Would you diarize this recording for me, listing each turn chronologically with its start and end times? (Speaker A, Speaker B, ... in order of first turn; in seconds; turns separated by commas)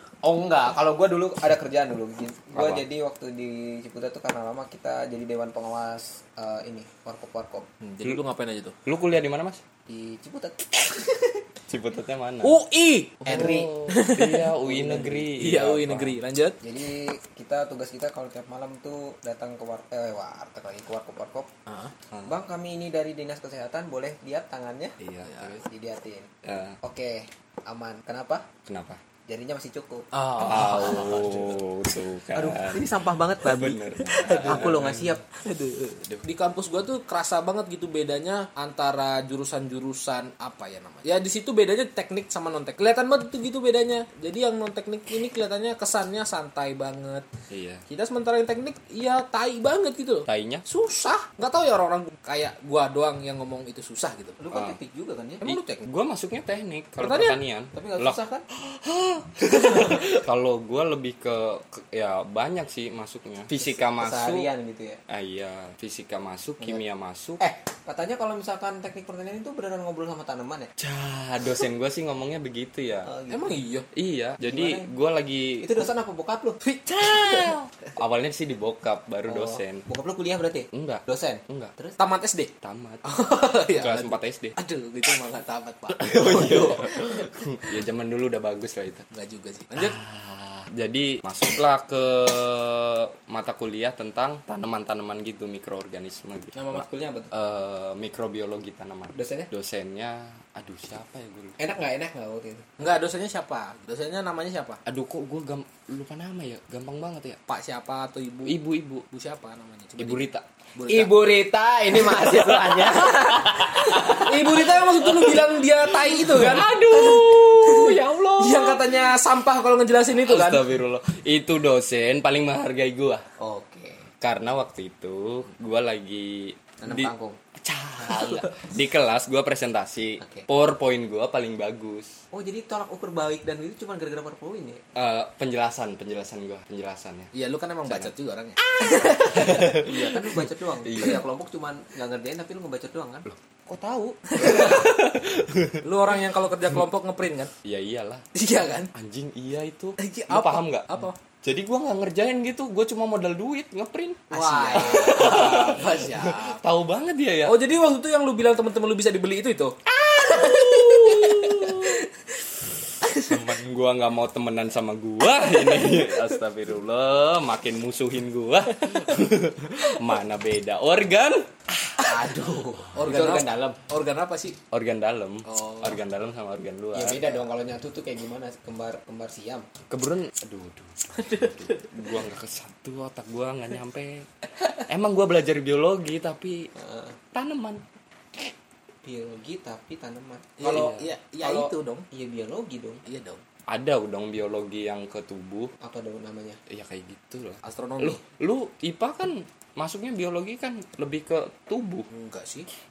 Speaker A: 0.2-7.7, Speaker B: 2.5-2.8, Speaker C: 7.8-8.7, Speaker B: 8.8-9.6, Speaker A: 9.9-11.4, Speaker B: 11.7-12.6, Speaker C: 12.4-14.5, Speaker A: 13.2-13.7, Speaker B: 13.3-16.2, Speaker A: 14.6-15.2, Speaker C: 15.3-16.6, Speaker A: 16.6-21.5, Speaker C: 21.7-21.9, Speaker A: 22.2-26.3, Speaker B: 25.0-25.6, Speaker C: 25.2-25.5, Speaker B: 26.4-26.8, Speaker A: 26.8-28.5, Speaker B: 28.6-29.0, Speaker A: 29.3-30.1, Speaker C: 30.1-31.6, Speaker B: 30.4-32.9, Speaker A: 32.3-36.0, Speaker B: 33.4-35.2, Speaker C: 34.1-34.9, Speaker C: 35.5-47.3, Speaker B: 47.5-47.8, Speaker C: 47.9-54.4, Speaker B: 50.3-50.6, Speaker A: 54.4-55.5, Speaker C: 55.4-55.9, Speaker B: 55.4-64.5, Speaker C: 57.0-57.4, Speaker A: 57.7-58.4, Speaker A: 59.6-60.0, Speaker A: 63.9-65.0, Speaker B: 65.1-67.4, Speaker A: 67.4-70.7, Speaker B: 70.8-73.1, Speaker A: 73.0-73.5, Speaker C: 73.3-73.9, Speaker B: 73.9-75.7, Speaker A: 74.4-74.9, Speaker A: 75.6-76.6, Speaker C: 76.6-77.5, Speaker B: 77.0-79.8, Speaker A: 79.3-82.0, Speaker B: 80.7-81.7, Speaker C: 82.0-82.5, Speaker B: 82.6-83.1, Speaker C: 83.0-87.7, Speaker B: 83.7-84.5, Speaker B: 86.0-89.0, Speaker C: 89.1-90.0, Speaker B: 89.8-96.7, Speaker C: 96.5-96.9, Speaker A: 96.7-97.3, Speaker B: 97.3-101.6, Speaker A: 99.1-99.5, Speaker A: 101.6-102.7, Speaker C: 102.8-104.8, Speaker B: 104.9-107.4, Speaker C: 107.5-110.2, Speaker B: 108.4-109.0, Speaker B: 110.0-110.4, Speaker C: 110.8-111.2, Speaker A: 110.9-114.3, Speaker B: 112.1-119.0, Speaker C: 113.9-120.7, Speaker B: 120.1-123.2, Speaker A: 123.4-124.1, Speaker B: 124.2-132.2, Speaker A: 126.8-127.4, Speaker A: 132.3-134.8, Speaker B: 134.9-137.3, Speaker C: 137.3-139.7, Speaker B: 137.9-138.1, Speaker A: 139.0-143.3, Speaker B: 139.3-141.2, Speaker B: 143.3-145.8, Speaker C: 144.4-144.9, Speaker A: 144.4-144.7, Speaker C: 145.8-147.5, Speaker B: 147.6-148.3, Speaker C: 148.3-148.9, Speaker B: 148.9-150.9, Speaker C: 150.0-151.2, Speaker B: 151.4-157.6, Speaker A: 154.3-155.7, Speaker C: 154.3-156.6, Speaker C: 157.4-162.5, Speaker B: 159.9-162.1, Speaker C: 163.0-163.5, Speaker B: 163.1-171.5, Speaker C: 165.5-166.3, Speaker A: 172.0-173.8, Speaker C: 172.0-174.6, Speaker B: 174.7-177.4, Speaker C: 175.5-176.0, Speaker A: 176.9-179.7, Speaker B: 179.9-184.3, Speaker C: 181.1-182.0, Speaker B: 184.9-186.7, Speaker A: 186.7-187.2, Speaker B: 187.3-187.8, Speaker A: 189.0-193.0, Speaker C: 190.6-192.1, Speaker B: 190.6-191.1, Speaker C: 193.1-193.4, Speaker B: 193.7-195.7, Speaker A: 195.8-196.6, Speaker B: 196.7-202.1, Speaker C: 197.6-198.2, Speaker C: 202.1-202.7